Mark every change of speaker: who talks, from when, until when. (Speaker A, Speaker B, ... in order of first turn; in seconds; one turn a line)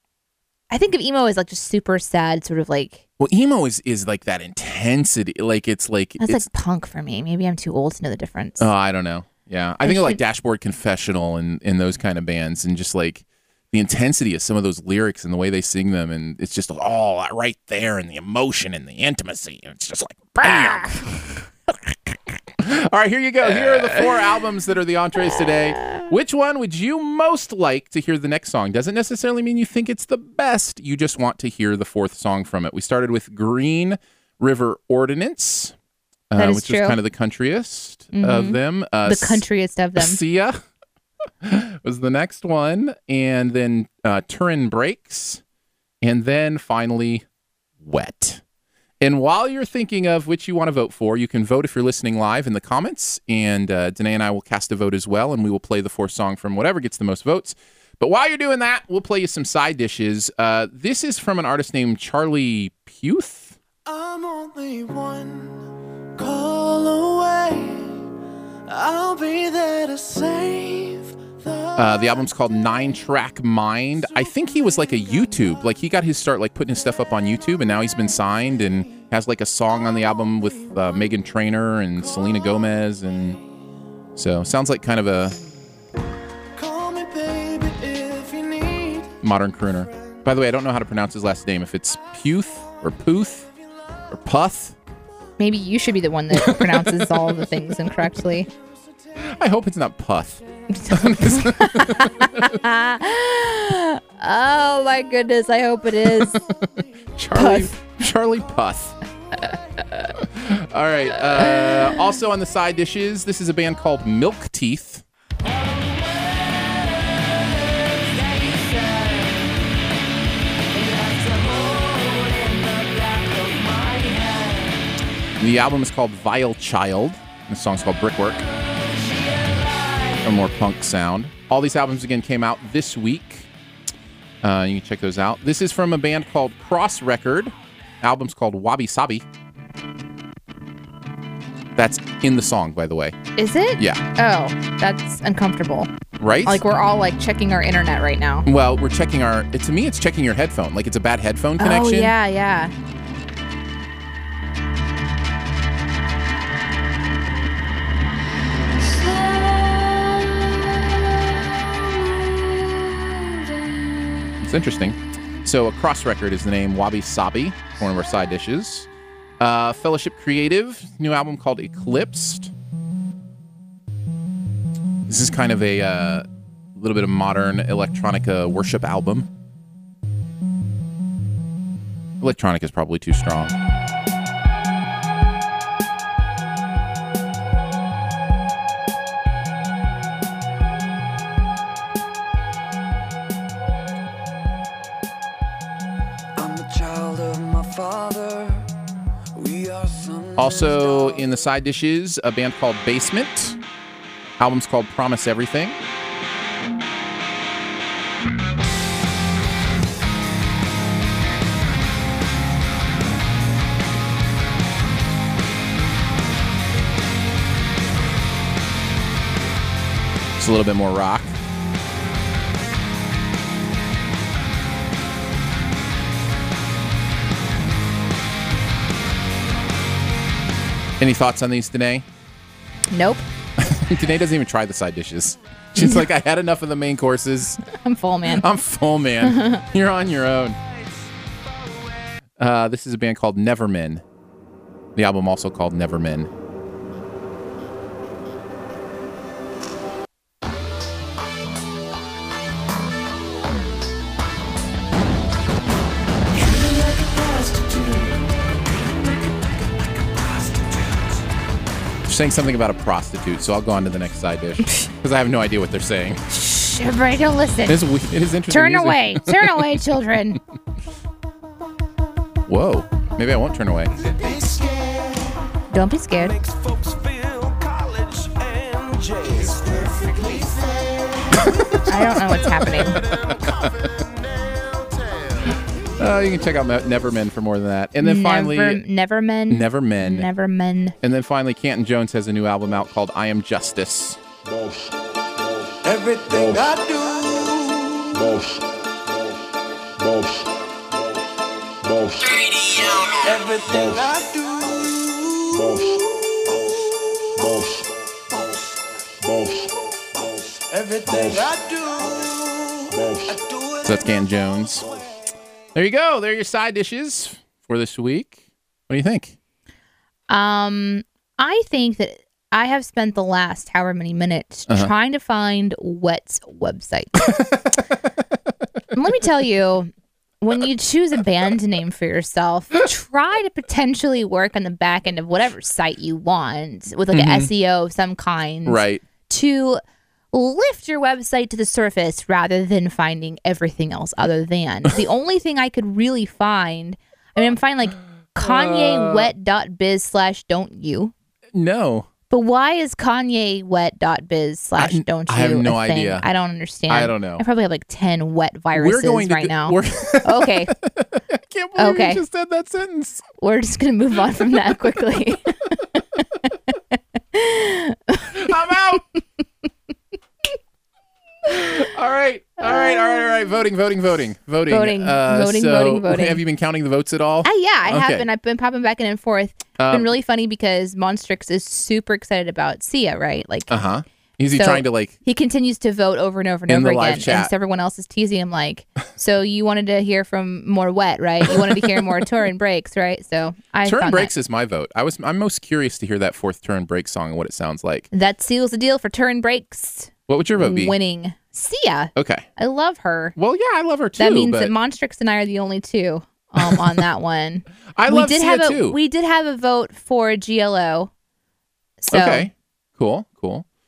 Speaker A: 0.7-3.0
Speaker B: 3.2-6.5
Speaker A: 6.2-8.7
Speaker B: 8.6-21.0
Speaker A: 9.8-10.2
Speaker A: 20.4-21.0
Speaker B: 22.6-35.7
Speaker B: 36.3-39.4
Speaker A: 36.4-37.0
Speaker A: 38.1-40.2
Speaker B: 40.0-40.6
Speaker B: 41.4-45.4
Speaker B: 46.0-47.2
Speaker B: 47.8-48.4
Speaker B: 49.0-63.6
Speaker C: 63.9-65.6
Speaker C: 66.2-68.0
Speaker C: 68.7-71.9
Speaker B: 71.8-83.4
Speaker B: 84.2-85.4
Speaker C: 86.6-89.2
Speaker B: 89.2-93.5
Speaker B: 94.1-94.8
Speaker A: 95.4-98.5
Speaker B: 96.3-97.3
Speaker B: 99.2-102.7
Speaker A: 100.7-106.4
Speaker B: 106.3-109.0
Speaker A: 107.3-107.8
Speaker B: 110.2-115.0
Speaker A: 111.4-111.9
Speaker D: 115.5-119.5
Speaker D: 120.7-124.9
Speaker B: 125.4-128.4
Speaker D: 128.5-130.3
Speaker B: 130.2-133.5
Speaker B: 134.4-139.3
Speaker B: 141.8-143.2
Speaker A: 143.4-145.9
Speaker B: 143.8-144.0
Speaker B: 146.2-146.6
Speaker A: 146.5-148.5
Speaker B: 148.5-152.1
Speaker A: 151.6-152.7
Speaker D: 158.8-161.5
Speaker D: 162.1-164.2
Speaker B: 164.4-168.9
Speaker B: 169.4-172.5
Speaker B: 175.1-176.3
Speaker B: 176.8-179.3
Speaker B: 182.2-183.6
Speaker D: 196.4-198.5
Speaker C: 199.4-199.7
Speaker D: 199.4-201.2
Speaker B: 200.4-203.6
Speaker B: 204.4-205.8
Speaker B: 220.4-221.3
Speaker B: 231.0-232.0
Speaker A: 232.9-233.2
Speaker B: 233.6-237.6
Speaker A: 237.7-238.5
Speaker B: 238.3-240.6
Speaker A: 239.2-239.6
Speaker B: 242.4-244.0
Speaker B: 245.0-246.3
Speaker C: 256.7-258.1
Speaker B: 262.1-266.2
Speaker A: 266.3-267.8
Speaker B: 267.7-269.5
Speaker A: 268.5-270.4
Speaker B: 272.5-273.9
Speaker C: 274.0-275.4
Speaker A: 275.7-276.3
Speaker C: 276.2-281.7
Speaker A: 281.9-283.0
Speaker C: 283.0-285.6
Speaker B: 286.0-288.8
Speaker A: 288.0-291.0
Speaker B: 289.5-290.3
Speaker B: 291.0-294.2
Speaker C: 295.8-298.6
Speaker C: 301.9-302.4
Speaker C: 303.0-314.1
Speaker B: 313.8-314.9
Speaker B: 315.7-318.4
Speaker B: 318.9-319.4
Speaker A: 320.3-327.3
Speaker A: 328.9-339.8
Speaker B: 337.1-337.5
Speaker B: 338.6-339.1
Speaker A: 340.3-351.1
Speaker B: 348.4-349.3
Speaker B: 351.6-352.1
Speaker A: 352.3-360.7
Speaker B: 354.8-356.3
Speaker B: 356.9-357.4
Speaker B: 358.8-363.2
Speaker A: 361.8-362.2
Speaker A: 363.4-366.0
Speaker A: 367.3-368.5
Speaker B: 368.3-369.0
Speaker B: 371.5-378.3
Speaker A: 372.8-373.6
Speaker A: 374.7-376.4
Speaker A: 377.4-383.8
Speaker B: 379.8-380.1
Speaker B: 383.7-385.1
Speaker A: 384.6-394.3
Speaker B: 386.7-387.5
Speaker B: 391.5-392.1
Speaker B: 393.8-398.1
Speaker A: 398.1-403.4
Speaker B: 400.3-401.0
Speaker B: 402.2-402.5
Speaker B: 403.4-404.7
Speaker A: 404.2-411.1
Speaker B: 407.9-409.0
Speaker A: 412.0-412.5
Speaker B: 412.1-413.6